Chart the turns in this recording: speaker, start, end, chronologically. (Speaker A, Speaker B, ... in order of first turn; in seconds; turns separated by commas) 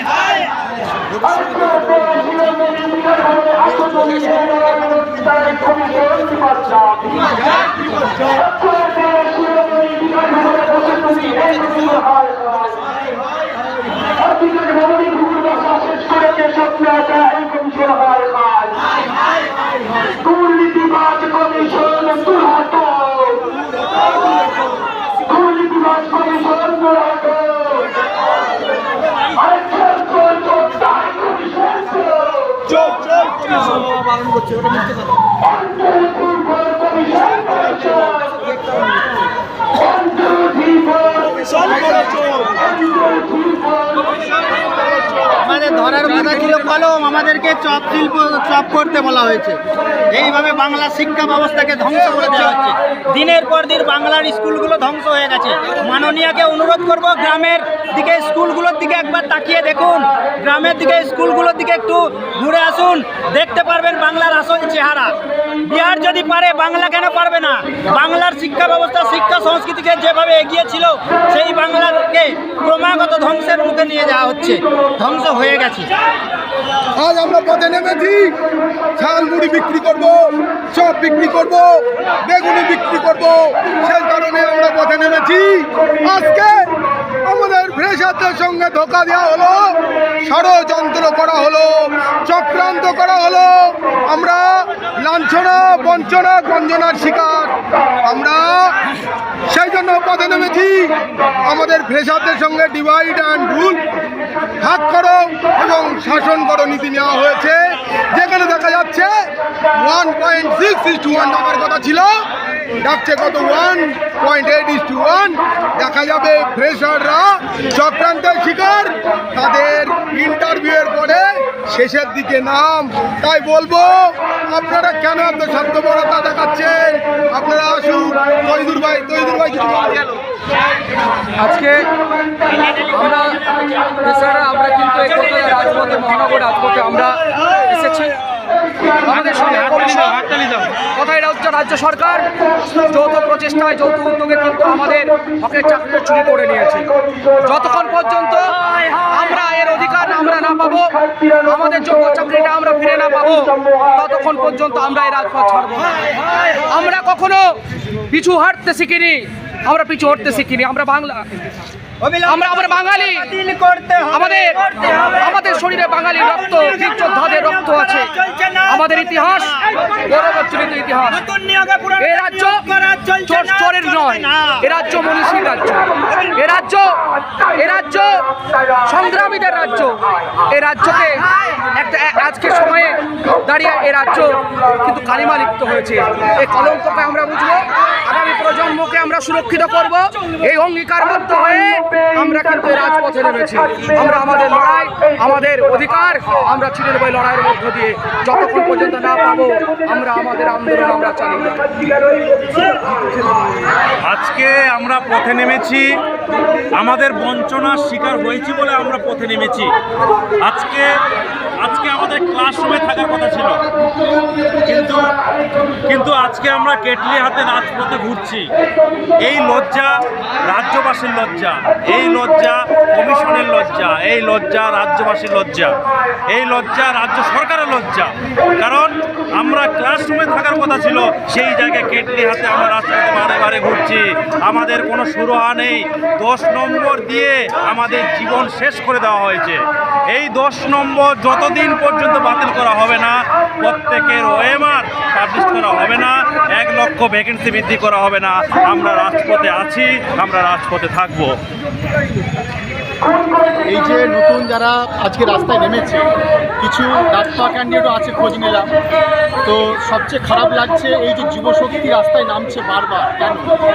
Speaker A: 3.7-4.2, Speaker A: 5.6-7.0, Speaker A: 10.7-12.7, Speaker A: 14.8-18.7, Speaker A: 20.6-23.4, Speaker A: 25.6-27.6, Speaker A: 30.1-31.8, Speaker A: 40.4-41.4, Speaker B: 45.2-75.9, Speaker C: 77.0-78.4, Speaker C: 79.0-86.7, Speaker C: 87.2-98.8, Speaker C: 99.5-103.8, Speaker C: 104.6-109.1, Speaker C: 109.7-112.2, Speaker C: 112.8-130.1, Speaker A: 131.4-131.8, Speaker A: 132.7-138.2, Speaker A: 139.0-157.6, Speaker A: 158.1-161.3, Speaker B: 162.0-165.4, Speaker A: 162.3-163.3, Speaker A: 164.1-164.6, Speaker A: 165.1-168.1, Speaker B: 166.2-169.6, Speaker A: 168.7-171.2, Speaker B: 171.1-174.6, Speaker A: 172.0-172.6, Speaker A: 173.3-201.8, Speaker D: 204.0-205.9, Speaker D: 206.8-209.7, Speaker D: 210.4-210.9, Speaker D: 211.6-213.5, Speaker D: 214.6-215.0, Speaker D: 215.9-218.5, Speaker D: 219.2-225.7, Speaker D: 226.3-239.6, Speaker D: 240.1-251.3, Speaker E: 253.5-256.1, Speaker E: 256.6-258.7, Speaker E: 259.4-263.5